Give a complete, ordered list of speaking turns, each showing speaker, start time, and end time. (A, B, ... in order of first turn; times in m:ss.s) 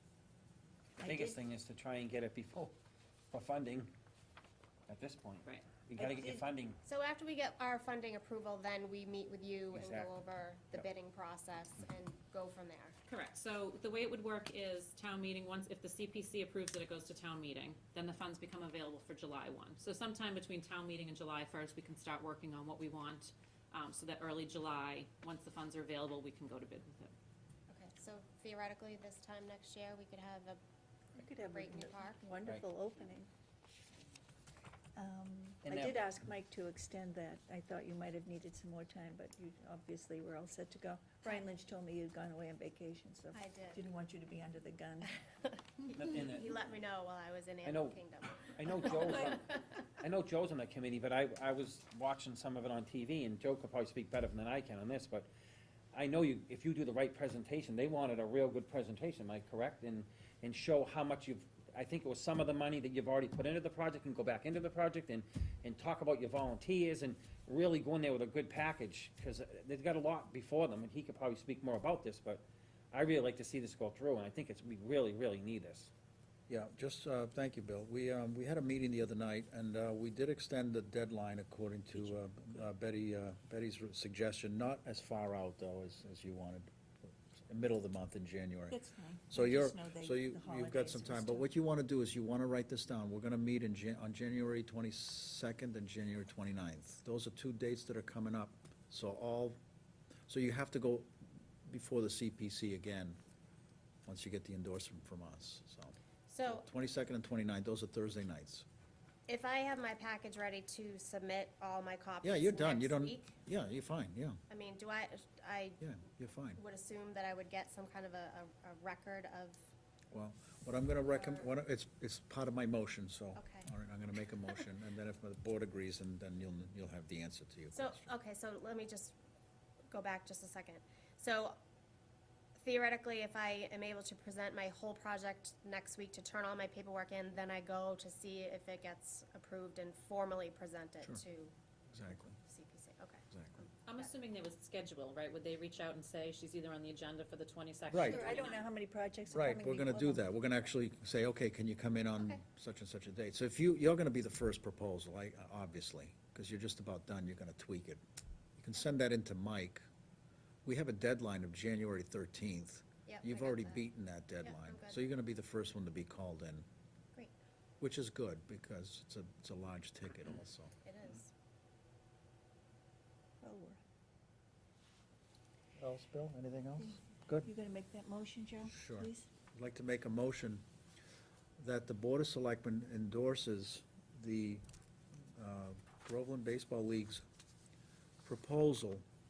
0:01.0-0:02.7 A
0:01.0-0:01.4 B
0:03.3-0:03.9 A
0:04.9-0:06.8 A
0:06.0-0:06.4 B
0:06.8-0:13.0 C
0:09.7-0:10.1 A
0:13.1-0:27.1 D
0:27.7-0:30.6 C
0:31.1-0:33.3 B
0:31.4-0:32.4 C
0:32.4-0:32.7 A
0:35.0-0:45.2 B
0:35.6-0:36.1 A
0:43.3-0:43.9 C
0:45.8-0:49.6 C
0:45.9-0:46.6 A
0:47.6-0:55.3 A
0:55.9-1:15.9 A
1:16.5-1:26.7 E
1:27.4-1:28.8 E
1:28.7-1:31.5 B
1:29.3-1:39.6 E
1:40.3-1:41.1 E
1:41.7-1:43.2 E
1:44.0-1:48.6 E
1:46.3-1:46.6 C
1:49.3-1:53.3 C
1:52.2-1:54.4 E
1:54.5-1:55.8 C
1:55.8-1:56.6 E
1:56.6-1:59.6 C
2:00.1-2:08.1 E
2:01.0-2:01.5 C
2:03.4-2:03.7 C
2:07.7-2:09.2 C
2:09.9-2:11.6 C
2:12.6-2:21.5 C
2:21.9-2:22.4 E
2:22.4-2:24.1 C
2:23.3-2:23.6 E
2:23.8-2:28.6 D
2:27.9-2:28.3 E
2:28.0-2:30.3 B
2:29.3-2:38.0 E
2:38.6-2:39.8 E
2:40.7-2:46.7 E
2:43.1-2:43.8 C
2:44.4-2:45.0 C
2:47.8-2:50.7 E
2:50.8-2:51.3 C
2:53.4-2:53.8 B
2:55.8-2:57.5 E
2:56.8-2:59.3 B
2:58.7-3:00.6 E
3:01.6-3:04.6 E
3:05.4-3:07.2 E
3:08.2-3:09.0 E